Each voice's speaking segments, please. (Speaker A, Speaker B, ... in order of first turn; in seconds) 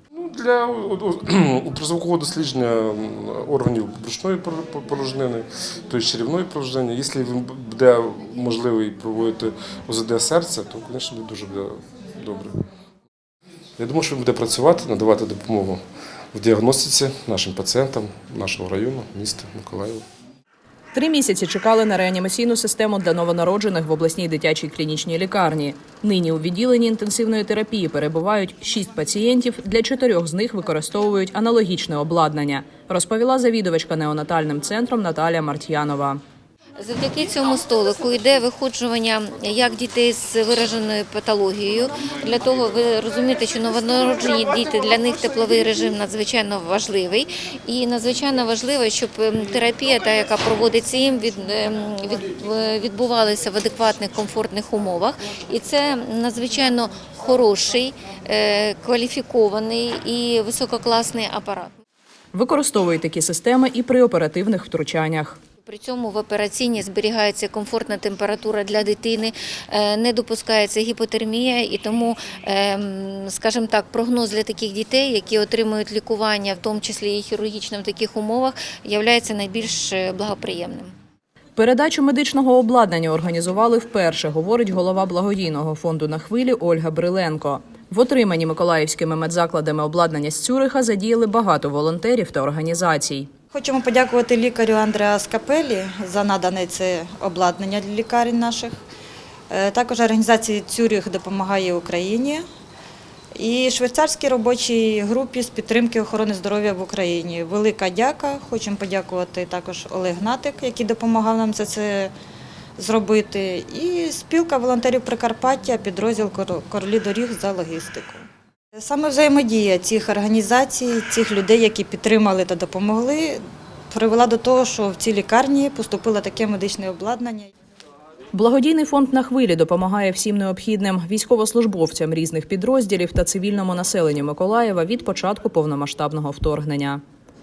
Speaker A: 0.1-12.6, 13.8-15.8, 16.3-20.0
Speaker B: 20.9-36.2, 62.3-65.4, 81.5-93.3, 128.3-137.0
Speaker C: 36.8-61.7, 65.6-80.9
Speaker D: 93.5-98.8, 99.5-102.4, 103.4-112.1, 112.8-127.5